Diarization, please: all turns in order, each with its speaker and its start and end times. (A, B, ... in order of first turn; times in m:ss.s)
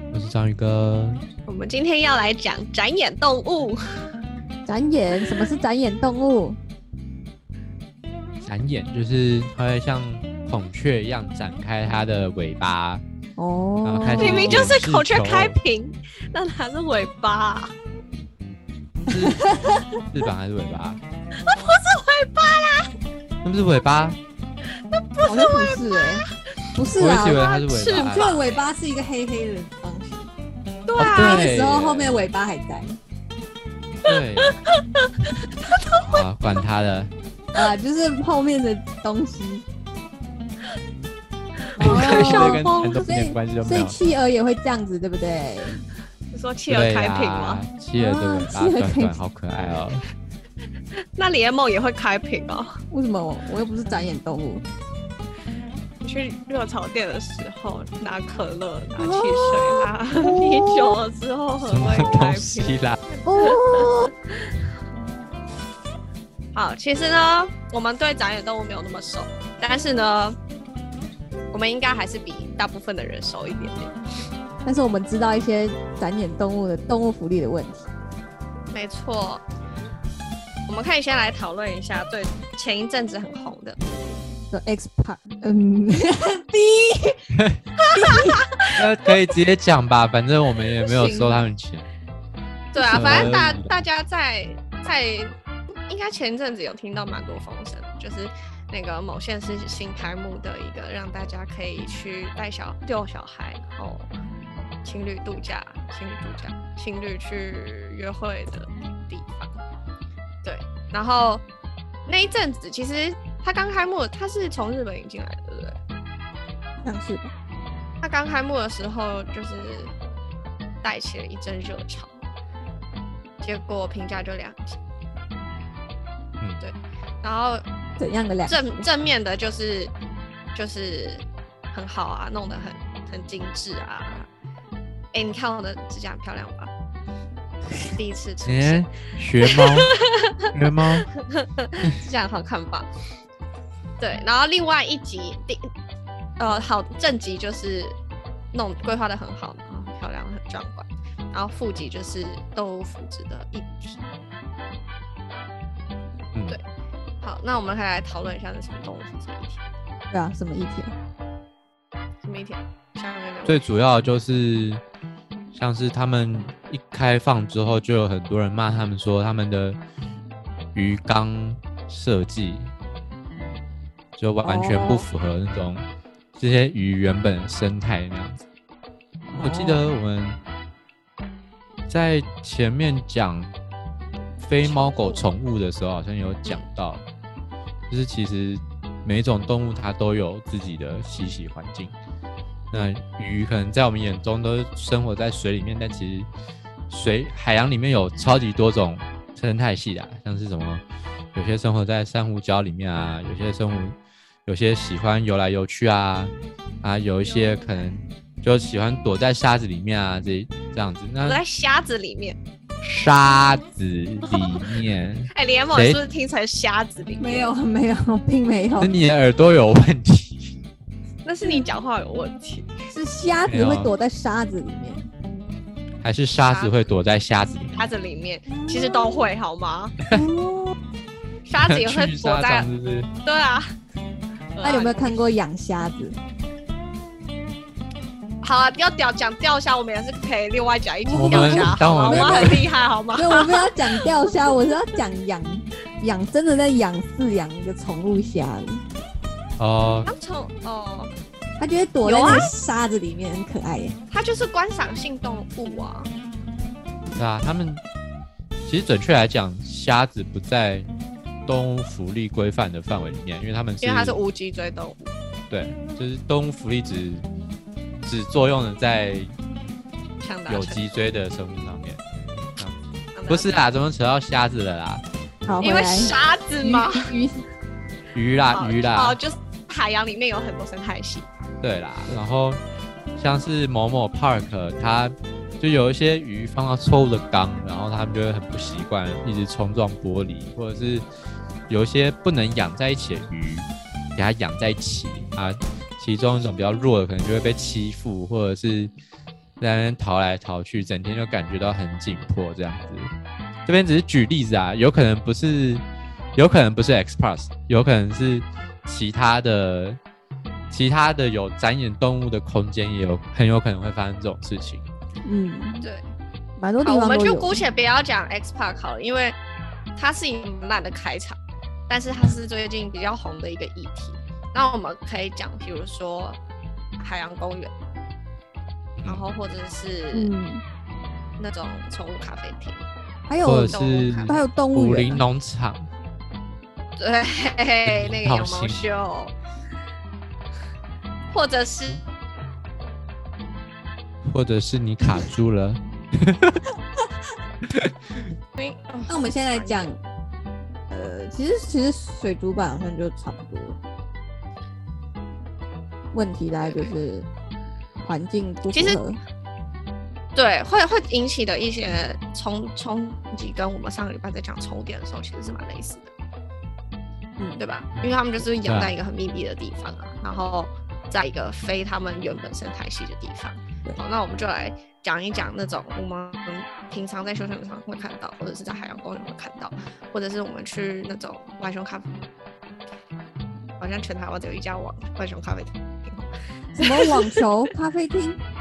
0:00.1-0:01.2 A
0:01.5-0:03.8 B
0:04.6-0:06.6 C
0:08.4-0:13.0 A
0:13.4-0:14.8 C
0:13.8-0:15.6 A
0:14.2-0:17.7 B
0:19.0-0:21.0 A
0:19.1-0:20.0 C
0:21.4-0:22.9 B
0:23.4-0:24.2 A
0:25.1-0:26.1 B
0:25.2-0:30.3 C
0:27.0-0:28.4 A
0:27.7-0:28.6 B
0:30.9-0:31.5 B
0:31.0-0:32.2 A
0:31.0-0:33.0 C
0:34.0-0:34.5 A
0:34.1-0:36.1 B
0:36.0-0:37.1 A
0:37.5-0:39.6 C
0:41.8-0:45.8 C
0:41.8-0:44.0 A
0:41.8-0:42.6 B
0:46.3-0:47.6 B
0:46.7-0:50.0 A
0:48.0-0:49.1 C
0:51.2-0:52.8 B
0:52.9-0:54.6 C
0:56.0-1:04.0 B
0:59.0-1:01.0 C
1:01.6-1:03.0 A
1:03.2-1:04.1 C
1:06.5-1:10.4 B
1:11.5-1:13.9 B
1:14.6-1:17.9 C
1:18.7-1:19.4 B
1:20.7-1:23.8 B
1:24.5-1:27.2 C
1:27.3-1:27.6 A
1:27.8-1:28.8 B
1:27.9-1:28.4 C
1:28.7-1:31.9 A
1:30.8-1:31.4 B
1:32.7-1:44.1 B
1:32.8-1:33.3 C
1:32.8-1:33.8 A
1:44.8-1:49.6 B
1:50.4-1:51.4 B
1:52.1-1:55.8 B
1:56.8-1:57.3 C
1:58.0-1:59.9 B
2:00.8-2:02.2 B
2:03.4-2:04.8 B
2:06.6-2:07.6 B
2:08.0-2:08.8 C
2:08.5-2:09.9 B
2:10.5-2:14.3 B
2:15.1-2:16.7 B
2:17.9-2:18.8 B
2:18.4-2:19.9 A
2:19.5-2:20.5 B
2:20.5-2:21.1 A
2:21.0-2:22.8 B
2:24.0-2:25.7 B
2:26.4-2:28.0 B
2:28.5-2:34.0 B
2:37.2-2:39.6 B
2:40.1-2:40.9 C
2:42.2-2:43.6 B
2:43.4-2:44.8 A
2:45.5-2:49.8 A
2:50.7-2:52.7 A
2:54.2-2:55.8 A
2:54.4-2:55.1 C
2:56.4-2:58.4 A
2:59.3-3:00.4 A
2:59.3-2:59.8 C
3:01.9-3:03.5 A
3:04.4-3:07.0 A
3:04.6-3:05.2 B
3:07.9-3:11.9 A
3:12.7-3:16.3 A
3:16.9-3:20.8 A
3:21.3-3:31.4 A
3:27.2-3:27.9 B
3:31.2-3:32.4 B
3:32.8-3:36.0 A
3:34.3-3:34.6 B
3:35.3-3:37.5 B
3:37.2-3:38.9 C
3:38.8-3:40.5 A
3:41.2-3:42.7 B
3:42.9-3:45.1 C
3:43.5-3:43.9 A
3:46.0-3:47.9 A
3:46.4-3:46.7 B
3:47.7-3:50.0 B
3:48.5-3:49.3 C
3:50.1-3:50.8 C
3:51.4-3:52.7 B
3:51.6-3:53.1 A
3:53.2-3:53.7 B
3:54.5-3:55.2 B
3:54.6-3:56.2 C
3:58.4-4:04.0 B
4:01.1-4:08.8 C
4:01.1-4:02.6 A
4:09.6-4:10.1 A
4:10.1-4:11.1 B
4:11.6-4:14.0 C
4:12.0-4:12.5 B
4:14.1-4:16.1 B
4:17.2-4:17.8 A
4:18.6-4:20.9 A
4:21.4-4:24.2 A
4:23.8-4:25.1 B
4:25.5-4:27.2 A
4:28.0-4:29.3 A
4:30.2-4:31.0 B
4:30.5-4:32.0 A
4:32.6-4:35.0 A
4:33.1-4:33.5 B
4:35.4-4:37.4 C
4:35.6-4:37.1 B
4:38.1-4:39.2 A
4:38.5-4:41.3 B
4:41.6-4:42.6 A
4:43.2-4:51.0 A
4:51.7-4:58.9 A
4:59.6-5:03.1 A
5:03.6-5:05.8 A
5:06.4-5:10.0 A
5:10.7-5:14.8 A
5:15.2-5:15.9 C
5:16.6-5:17.6 C
5:16.8-5:19.4 B
5:20.0-5:21.4 B
5:21.9-5:26.4 B
5:27.0-5:27.7 B
5:29.0-5:29.2 A
5:29.0-5:30.3 B
5:30.1-5:30.6 C
5:31.4-5:32.8 B
5:33.3-5:35.2 C
5:33.4-5:35.9 A
5:33.7-5:34.4 B
5:37.0-5:39.3 B
5:37.8-5:38.8 A
5:41.3-5:42.0 B
5:44.2-5:46.6 A
5:48.6-5:49.9 B
5:49.1-5:50.0 C
5:50.9-5:53.8 C
5:56.1-5:57.3 C
5:56.6-5:56.9 B
5:58.0-5:59.2 C
5:58.7-5:59.0 B
6:00.3-6:06.1 B
6:07.6-6:22.1 B
6:08.6-6:08.9 A
6:23.8-6:27.4 B
6:26.8-6:28.4 C